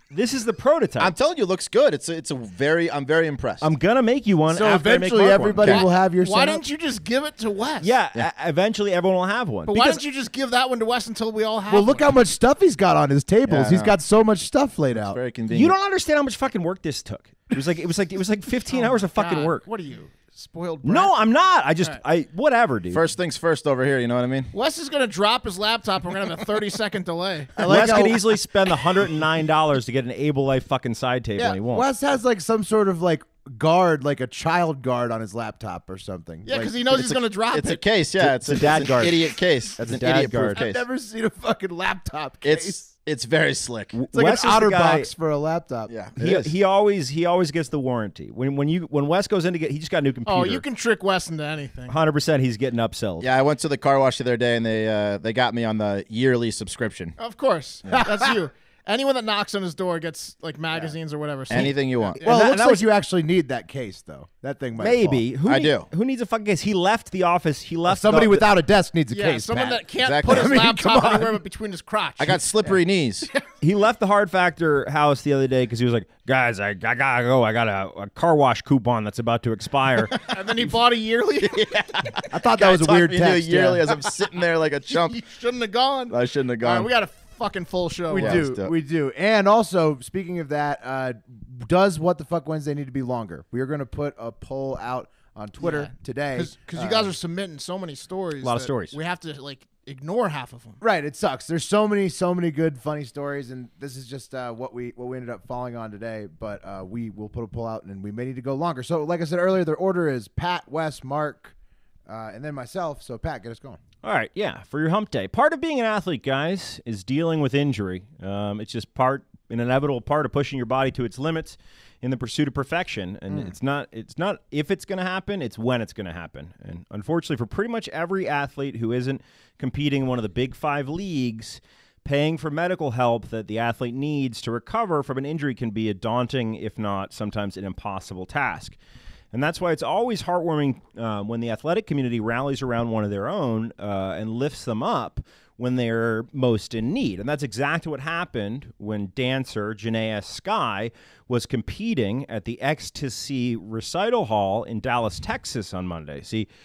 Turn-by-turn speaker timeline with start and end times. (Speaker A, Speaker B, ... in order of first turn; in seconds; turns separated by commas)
Speaker A: 0.1-1.1, Speaker B: 1.0-3.7, Speaker A: 3.6-5.7, Speaker C: 4.5-6.6, Speaker B: 5.6-5.8, Speaker D: 5.6-7.9, Speaker A: 7.8-10.0, Speaker D: 9.7-12.1, Speaker C: 11.7-15.2, Speaker B: 13.4-13.9, Speaker B: 15.0-15.7, Speaker A: 15.5-19.6, Speaker D: 18.7-21.1, Speaker A: 20.8-23.0, Speaker B: 22.9-24.5, Speaker D: 24.5-27.6, Speaker C: 27.6-28.3, Speaker A: 27.6-31.9, Speaker C: 31.4-36.8, Speaker D: 36.5-37.8, Speaker B: 36.9-40.8, Speaker A: 38.2-40.6, Speaker C: 40.0-42.9, Speaker B: 42.4-44.0, Speaker A: 43.9-45.1, Speaker C: 44.1-45.9, Speaker B: 45.9-46.5, Speaker A: 46.2-50.6, Speaker D: 50.2-52.0, Speaker A: 51.9-53.3, Speaker B: 53.2-57.2, Speaker D: 57.2-62.2, Speaker C: 57.9-58.3, Speaker B: 61.5-62.2, Speaker A: 62.2-62.9, Speaker C: 62.2-65.2, Speaker A: 64.8-68.4, Speaker B: 65.4-65.9, Speaker C: 67.9-71.4, Speaker D: 69.1-72.7, Speaker B: 70.0-70.6, Speaker B: 72.2-73.3, Speaker A: 73.6-80.2, Speaker D: 80.3-81.8, Speaker B: 81.4-85.2, Speaker C: 82.3-84.0, Speaker D: 84.9-88.5, Speaker B: 86.1-86.9, Speaker C: 88.1-97.1, Speaker B: 88.1-88.7, Speaker D: 95.6-100.8, Speaker A: 98.4-99.0, Speaker C: 100.8-111.5, Speaker C: 112.0-113.8, Speaker A: 114.0-138.8, Speaker A: 139.3-156.5